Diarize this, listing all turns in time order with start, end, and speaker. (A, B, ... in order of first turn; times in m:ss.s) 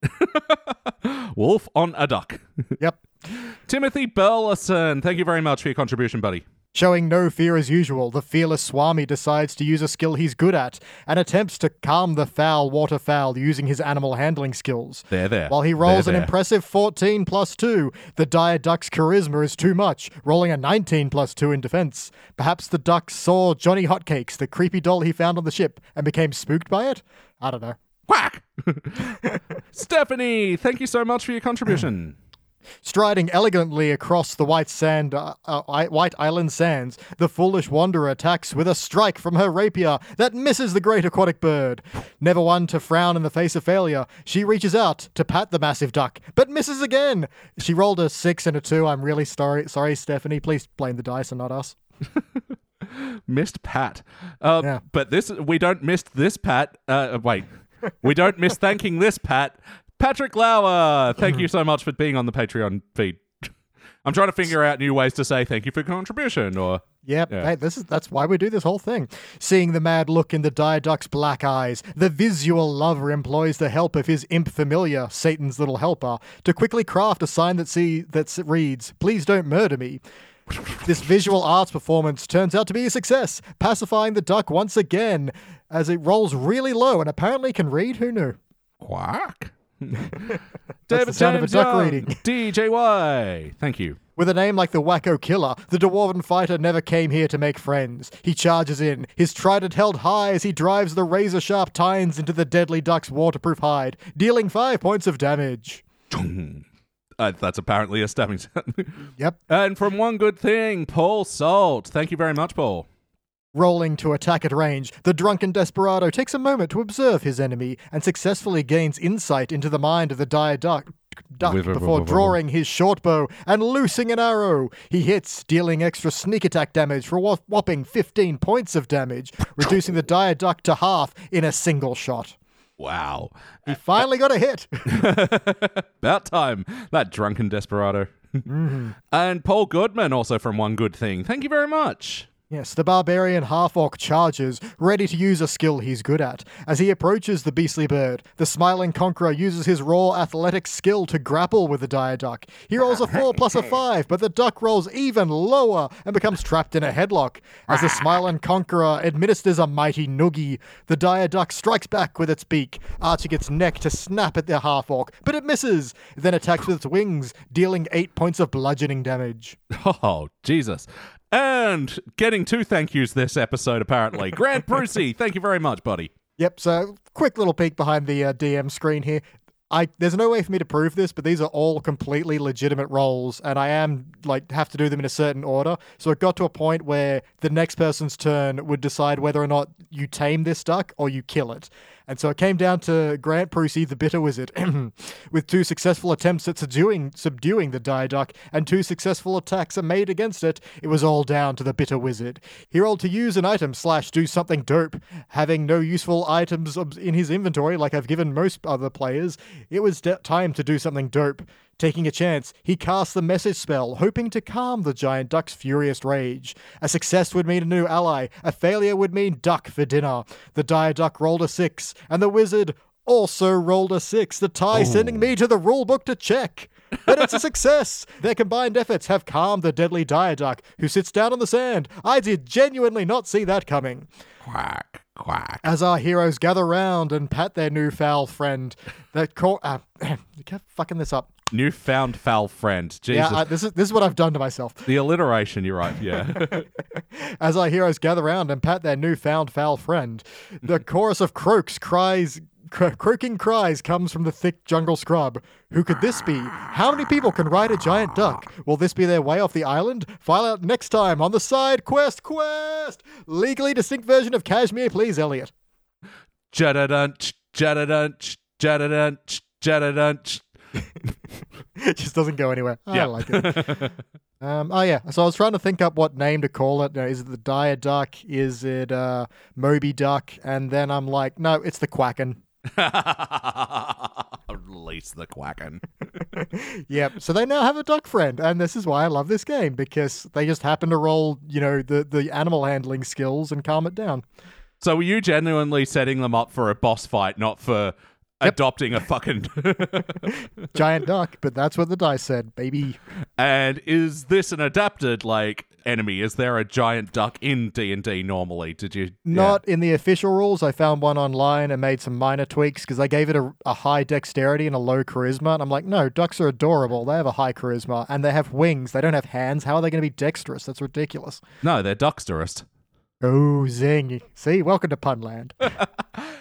0:00.1-0:02.4 A
0:03.4-0:06.4 A
0:06.7-0:27.8 B
0:15.1-0:16.3 A
0:28.1-0:29.2 A
0:29.0-0:29.4 B
0:29.7-0:32.1 A
0:32.8-0:51.8 B
0:52.8-0:57.5 A
0:58.0-1:03.5 A
1:04.0-1:07.5 A
1:07.0-1:20.0 B
1:20.8-1:28.4 B
1:28.8-1:34.0 A
1:30.9-1:32.2 B
1:34.2-1:45.8 B
1:46.1-1:46.6 A
1:47.2-1:52.8 A
1:53.5-2:12.3 B
2:01.4-2:02.3 A
2:12.8-2:13.3 A
2:13.6-2:15.0 B
2:14.9-2:18.4 A
2:18.5-2:18.9 B
2:19.1-2:22.3 A
2:22.5-2:49.6 B
2:37.7-2:38.1 A
2:49.7-2:56.1 A
2:56.4-3:54.1 B
3:44.7-3:45.3 A
3:54.4-3:55.6 A
3:55.6-4:01.3 B
4:01.5-4:03.4 A
4:03.1-4:04.9 B
4:04.9-4:06.7 A
4:06.3-4:06.6 B
4:07.1-4:25.5 B
4:26.5-4:30.4 A
4:31.8-4:33.8 B
4:32.9-4:33.9 A
4:34.4-4:42.4 B
4:42.7-4:45.8 A
4:46.3-4:54.2 B
4:54.8-5:00.4 A
5:00.7-5:03.0 B
5:03.4-5:09.6 A
5:09.2-5:21.4 B
5:21.6-5:22.6 A
5:23.2-5:25.8 B